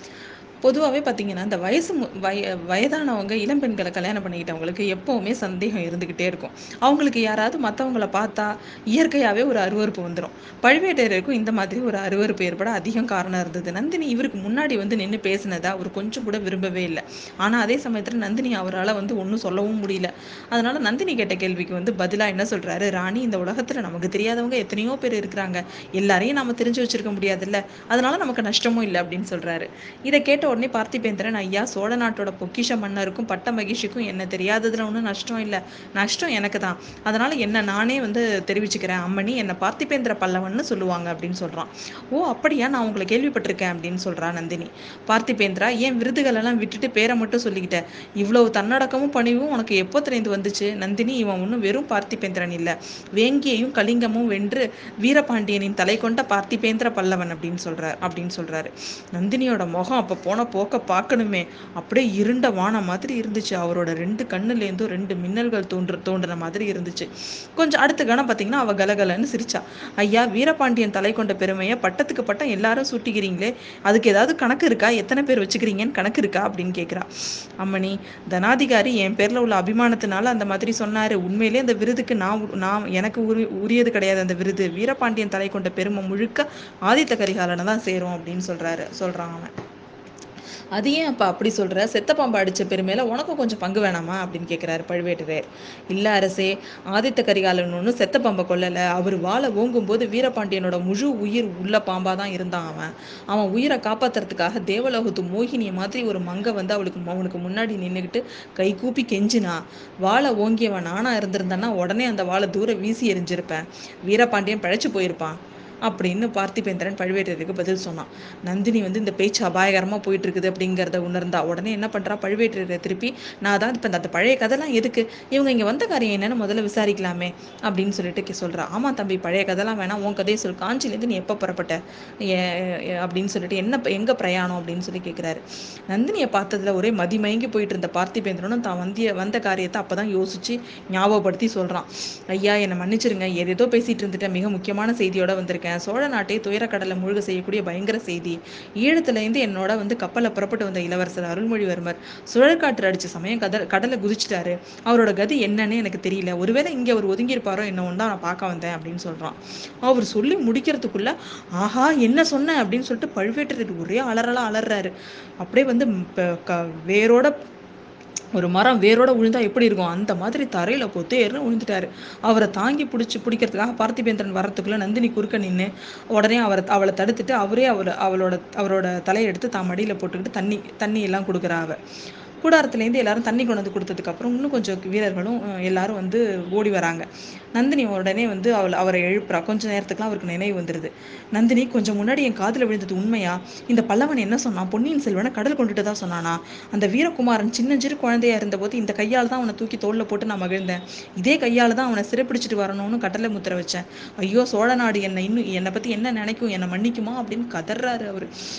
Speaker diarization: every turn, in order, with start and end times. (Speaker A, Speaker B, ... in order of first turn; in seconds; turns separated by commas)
Speaker A: 0.6-77.1, Speaker A: 77.6-89.5, Speaker A: 90.8-167.3, Speaker A: 168.3-181.8, Speaker A: 182.4-208.3